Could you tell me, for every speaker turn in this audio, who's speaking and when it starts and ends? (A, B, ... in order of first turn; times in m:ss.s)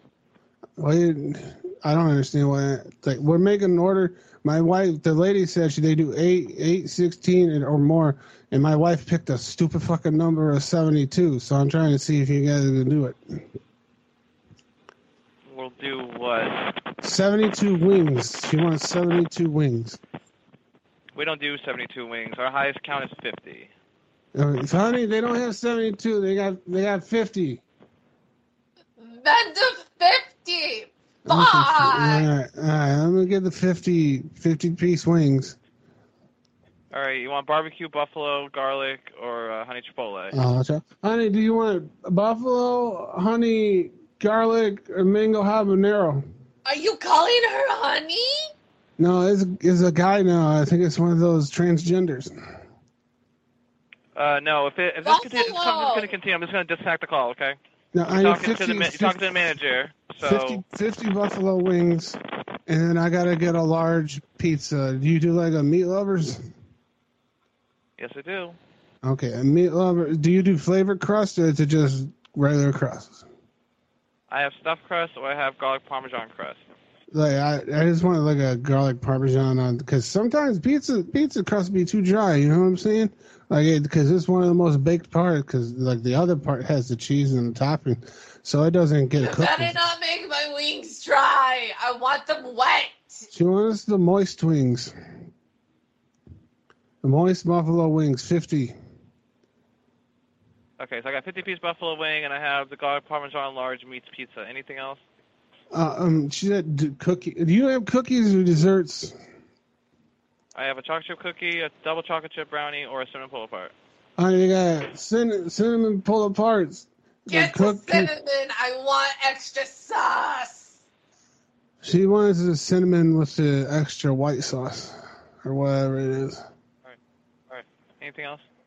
0:00.8-0:13.5 A
0:15.4-0:16.6 B
0:17.0-0:20.0 A
0:21.1-0:23.7 B
0:24.3-0:27.6 A
0:29.0-0:32.2 C
0:31.2-0:35.6 A
0:36.9-0:40.4 B
0:40.3-0:46.2 A
0:46.6-0:48.5 C
0:49.0-0:52.3 A
0:54.1-0:57.6 B
0:55.0-0:56.1 C
0:57.9-0:59.6 A
0:58.1-1:00.6 B
1:00.2-1:06.4 A
1:08.0-1:08.6 B
1:09.0-1:13.2 A
1:14.3-1:16.6 B
1:17.1-1:29.8 A
1:29.2-1:33.2 C
1:33.3-1:34.9 A
1:37.0-1:38.7 A
1:40.8-1:45.0 B
1:45.7-1:49.1 A
1:50.5-1:53.7 B
1:54.2-1:58.1 A
1:57.3-2:00.7 C
2:01.8-2:06.4 A
2:07.5-2:08.4 B